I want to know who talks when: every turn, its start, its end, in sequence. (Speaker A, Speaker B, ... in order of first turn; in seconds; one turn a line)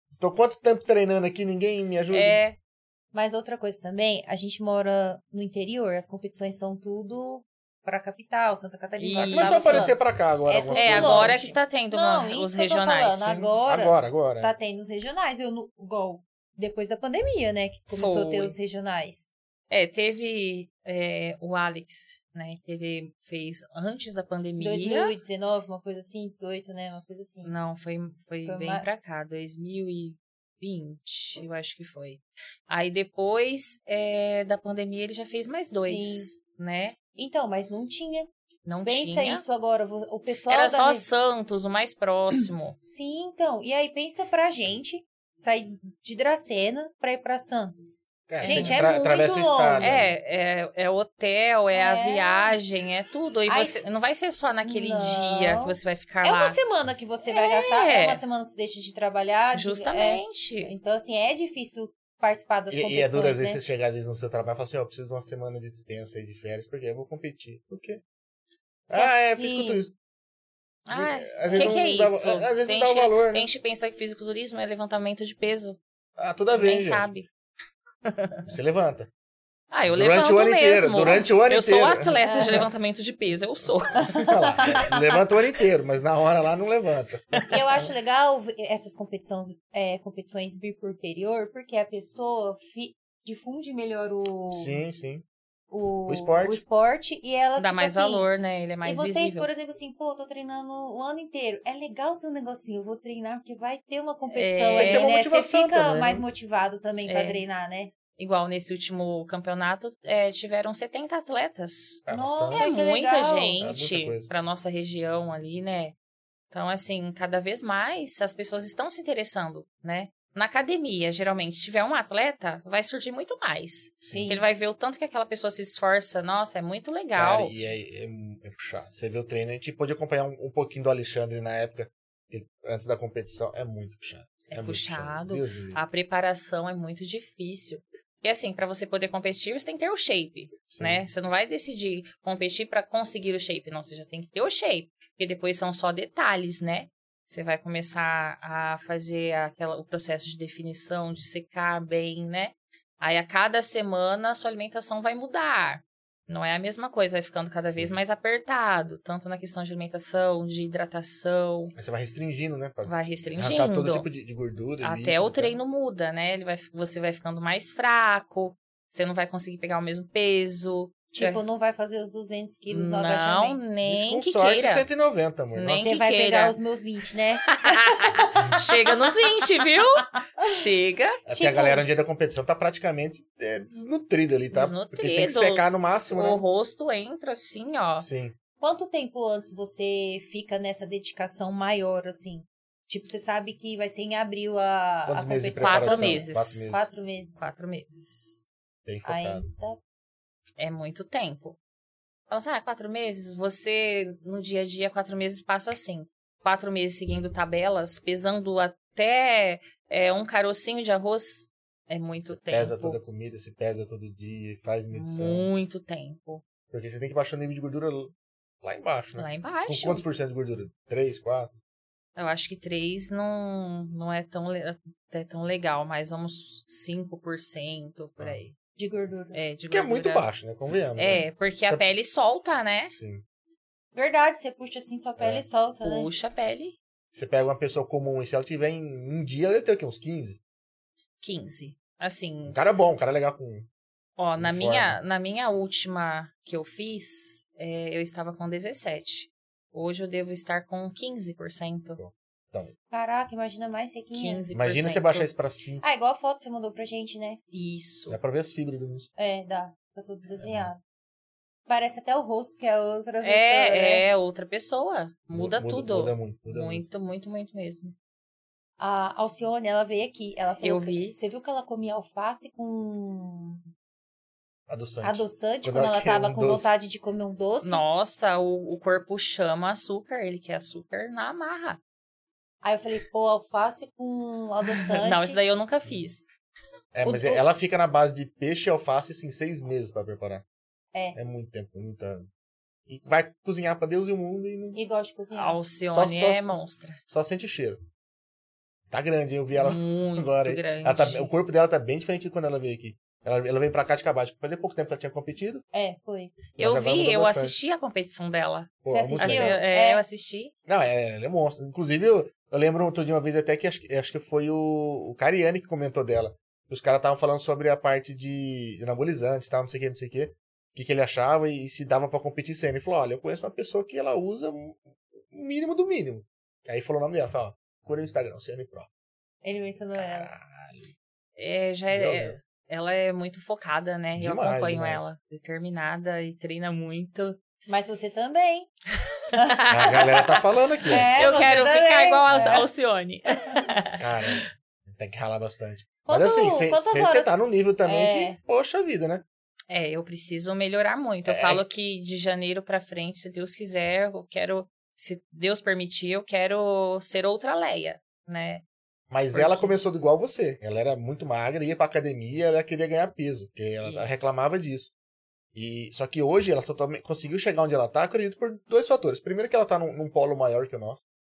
Speaker A: 0.2-2.4
Speaker B: 2.1-2.6
Speaker C: 3.1-10.0
Speaker B: 9.0-9.9
Speaker A: 9.2-11.4
Speaker C: 10.5-19.3
Speaker B: 10.7-13.4
Speaker A: 13.2-14.5
Speaker B: 17.9-18.6
Speaker B: 19.7-25.1
Speaker C: 24.6-27.5
Speaker B: 27.4-37.0
Speaker C: 28.4-28.9
Speaker C: 35.8-36.3
Speaker C: 37.2-38.3
Speaker B: 38.7-39.4
Speaker C: 38.8-41.1
Speaker B: 40.5-42.8
Speaker C: 42.8-50.0
Speaker A: 48.3-50.1
Speaker B: 48.4-48.8
Speaker B: 49.8-56.6
Speaker C: 51.7-52.6
Speaker C: 53.5-53.8
Speaker C: 54.6-63.6
Speaker B: 57.3-58.2
Speaker B: 59.5-60.7
Speaker A: 62.7-68.0
Speaker A: 68.9-69.9
Speaker C: 68.9-69.8
Speaker B: 70.9-75.8
Speaker A: 70.9-73.5
Speaker C: 71.5-71.8
Speaker A: 76.2-77.1
Speaker B: 76.6-77.3
Speaker B: 78.1-78.4
Speaker A: 78.5-79.1
Speaker B: 79.7-84.2
Speaker A: 79.9-82.6
Speaker C: 82.2-82.7
Speaker C: 84.0-85.0
Speaker A: 84.2-87.4
Speaker C: 87.5-94.8
Speaker A: 94.5-95.2
Speaker C: 95.7-98.3
Speaker A: 96.1-96.6
Speaker B: 97.6-99.5
Speaker C: 98.8-107.9
Speaker B: 104.3-105.1
Speaker A: 104.8-106.2
Speaker B: 107.1-107.4
Speaker B: 108.2-116.0
Speaker A: 112.1-112.7
Speaker C: 112.1-113.6
Speaker A: 113.6-114.3
Speaker B: 116.5-127.5
Speaker A: 124.0-124.3
Speaker C: 124.1-124.5
Speaker A: 127.2-135.8
Speaker B: 134.5-161.7
Speaker A: 140.7-141.0
Speaker A: 157.7-158.0
Speaker A: 161.8-165.6
Speaker B: 162.8-164.1
Speaker B: 164.8-171.4
Speaker C: 171.1-173.6
Speaker B: 172.7-174.9
Speaker A: 173.8-175.9
Speaker B: 175.6-176.6
Speaker C: 175.8-179.1
Speaker B: 177.5-181.2
Speaker A: 181.3-186.4
Speaker C: 181.3-181.8
Speaker B: 184.5-188.1
Speaker A: 188.0-188.3
Speaker C: 188.6-197.5
Speaker A: 195.1-196.8
Speaker B: 195.6-196.8
Speaker B: 197.4-198.4
Speaker A: 198.8-199.5
Speaker C: 199.1-199.8
Speaker B: 200.6-201.6
Speaker B: 202.3-213.0
Speaker A: 212.3-215.5
Speaker B: 214.9-216.4
Speaker A: 216.7-221.6
Speaker B: 219.2-220.1
Speaker B: 222.2-228.5
Speaker C: 228.8-229.4
Speaker B: 229.3-230.3
Speaker A: 229.7-231.8
Speaker B: 231.0-232.9
Speaker A: 232.9-233.2
Speaker C: 233.9-236.1
Speaker A: 235.2-235.4
Speaker B: 235.8-236.8
Speaker A: 237.1-240.4
Speaker B: 241.2-242.6
Speaker A: 242.5-243.7
Speaker B: 244.2-252.0
Speaker A: 244.4-245.0
Speaker A: 252.0-252.7
Speaker C: 252.9-254.4
Speaker B: 254.1-255.3
Speaker A: 254.5-255.8
Speaker C: 255.8-257.4
Speaker B: 257.5-258.2
Speaker A: 258.1-259.1
Speaker C: 259.2-260.8
Speaker A: 260.4-260.7
Speaker C: 261.7-264.1
Speaker B: 263.2-267.9
Speaker A: 265.3-266.9
Speaker C: 268.8-273.6
Speaker B: 270.6-271.2
Speaker A: 274.7-276.7
Speaker C: 275.0-277.8
Speaker B: 277.6-281.8
Speaker C: 282.6-285.4
Speaker B: 284.9-286.2
Speaker A: 286.9-290.4
Speaker C: 287.0-287.4
Speaker A: 291.1-292.3
Speaker A: 292.9-294.8
Speaker C: 294.7-295.6
Speaker B: 295.3-297.0
Speaker A: 295.9-297.8
Speaker A: 298.9-305.6
Speaker B: 299.6-301.3
Speaker C: 305.7-306.4
Speaker A: 306.6-307.6
Speaker B: 306.6-310.5
Speaker A: 308.8-309.6
Speaker C: 308.9-310.0
Speaker A: 310.7-328.9
Speaker C: 329.4-330.3
Speaker A: 329.9-330.9
Speaker B: 331.4-337.4
Speaker A: 331.9-332.4
Speaker A: 334.2-335.1
Speaker C: 337.7-338.7
Speaker C: 339.4-339.6
Speaker B: 339.4-340.4
Speaker A: 339.7-341.1
Speaker C: 340.9-342.7
Speaker B: 341.2-344.4
Speaker A: 344.0-349.2
Speaker C: 346.1-347.3
Speaker C: 347.9-348.4
Speaker B: 349.7-358.6
Speaker A: 351.2-351.6
Speaker A: 359.1-364.9
Speaker B: 359.3-359.8
Speaker B: 363.8-364.1
Speaker A: 365.6-371.0